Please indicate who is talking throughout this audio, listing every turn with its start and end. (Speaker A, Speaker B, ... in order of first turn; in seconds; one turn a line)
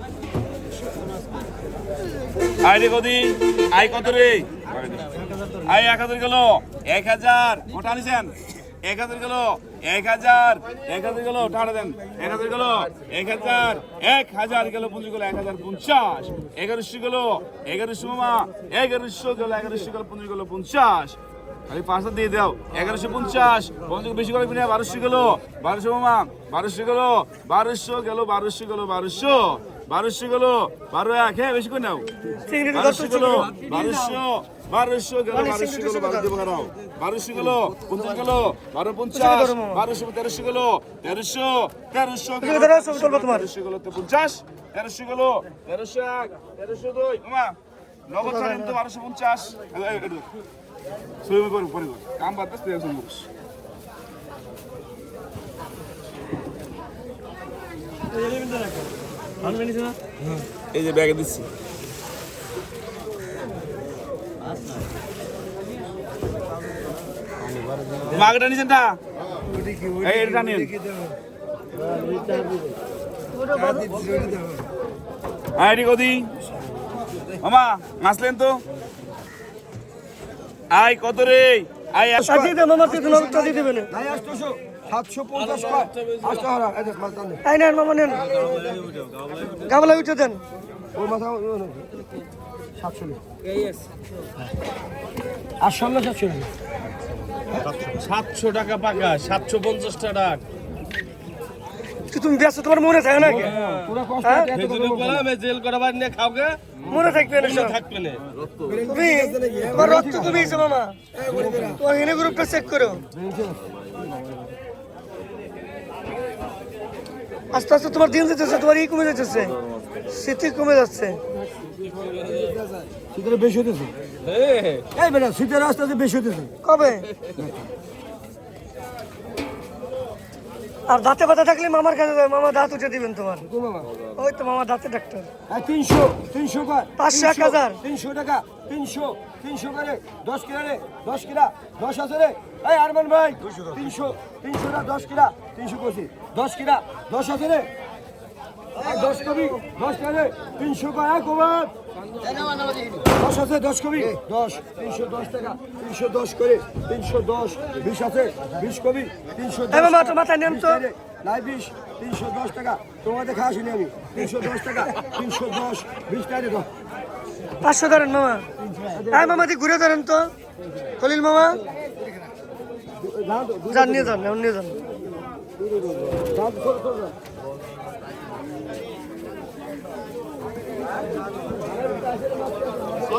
Speaker A: 2.6-21.2
Speaker A: 21.7-32.1
Speaker B: 32.5-33.5
Speaker A: 32.7-47.6
Speaker B: 35.3-36.3
Speaker B: 39.1-39.8
Speaker B: 42.4-43.5
Speaker A: 48.1-50.3
Speaker B: 48.2-48.8
Speaker A: 51.2-53.3
Speaker A: 60.7-61.5
Speaker A: 68.1-69.0
Speaker A: 70.0-70.8
Speaker B: 73.4-74.0
Speaker A: 75.6-76.3
Speaker A: 77.4-78.6
Speaker A: 80.7-82.5
Speaker B: 82.2-83.9
Speaker C: 82.3-87.4
Speaker B: 87.5-88.3
Speaker B: 89.6-90.4
Speaker C: 90.9-91.9
Speaker C: 92.8-93.2
Speaker C: 95.6-96.5
Speaker D: 98.0-100.4
Speaker B: 102.1-103.5
Speaker C: 103.2-105.3
Speaker B: 104.2-104.5
Speaker D: 105.3-106.8
Speaker B: 106.9-107.8
Speaker D: 107.5-108.2
Speaker C: 108.6-111.8
Speaker B: 108.9-111.0
Speaker B: 111.8-113.0
Speaker C: 113.1-113.6
Speaker B: 117.5-119.6
Speaker B: 120.1-121.2
Speaker C: 123.1-123.9
Speaker D: 124.4-124.8
Speaker C: 124.9-126.5
Speaker B: 126.6-127.1
Speaker B: 130.9-133.5
Speaker C: 133.4-133.9
Speaker B: 134.2-135.3
Speaker C: 135.5-147.7
Speaker B: 137.0-137.8
Speaker C: 148.8-151.7
Speaker C: 153.1-166.7
Speaker B: 159.7-160.8
Speaker B: 167.6-168.5
Speaker C: 168.9-169.5
Speaker B: 169.1-170.3
Speaker B: 171.0-171.6
Speaker C: 173.0-174.2
Speaker B: 173.7-174.8
Speaker C: 176.1-177.1
Speaker C: 181.9-182.7